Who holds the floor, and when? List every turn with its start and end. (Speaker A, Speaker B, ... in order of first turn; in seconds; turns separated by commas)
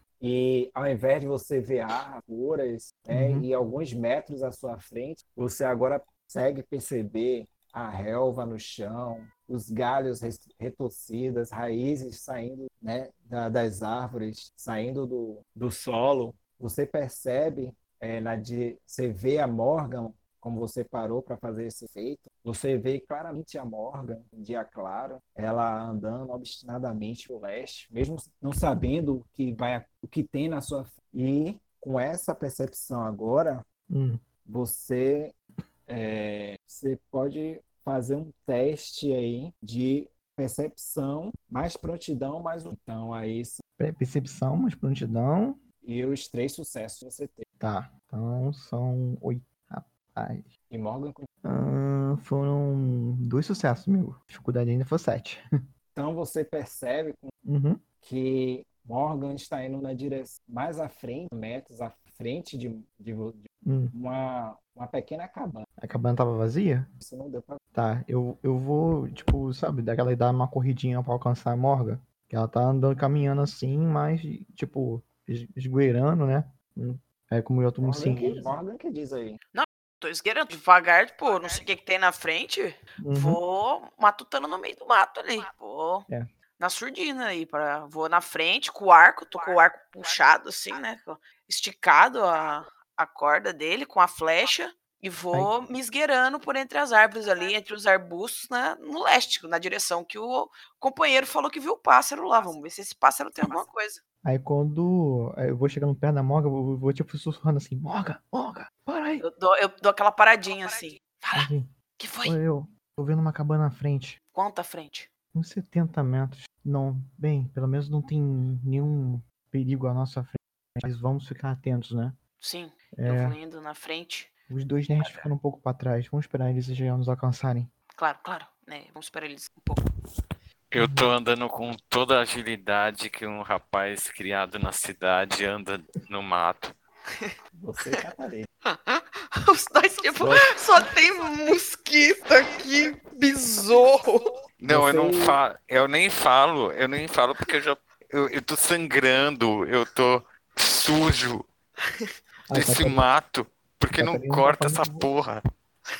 Speaker A: 0.2-33.6, Speaker B: 3.1-3.5, Speaker B: 33.9-34.2, Speaker A: 34.4-35.3, Speaker A: 35.9-43.6, Speaker B: 43.8-45.6, Speaker A: 45.8-47.4, Speaker B: 47.6-50.5, Speaker A: 50.7-51.3, Speaker B: 51.4-55.4, Speaker A: 55.9-57.3, Speaker B: 57.4-57.8, Speaker A: 58.0-63.4, Speaker B: 63.6-63.9, Speaker A: 63.9-65.7, Speaker B: 65.8-66.9, Speaker A: 67.0-67.6, Speaker B: 67.7-78.5, Speaker A: 77.8-79.4, Speaker C: 79.5-86.1, Speaker B: 83.0-83.4, Speaker C: 86.6-104.0, Speaker B: 104.2-109.2, Speaker C: 109.2-112.4, Speaker B: 111.3-111.7, Speaker B: 112.2-114.2, Speaker C: 114.3-115.1, Speaker B: 115.3-122.2, Speaker C: 122.4-124.3, Speaker B: 122.9-123.4, Speaker B: 124.5-127.7, Speaker C: 125.0-125.3, Speaker C: 128.0-129.8, Speaker D: 130.7-136.7, Speaker B: 130.8-131.1, Speaker A: 137.5-138.5, Speaker C: 138.7-144.3, Speaker A: 140.2-140.4, Speaker D: 144.6-151.5, Speaker B: 144.7-145.2, Speaker B: 152.5-153.1, Speaker D: 152.5-155.4, Speaker B: 154.0-155.1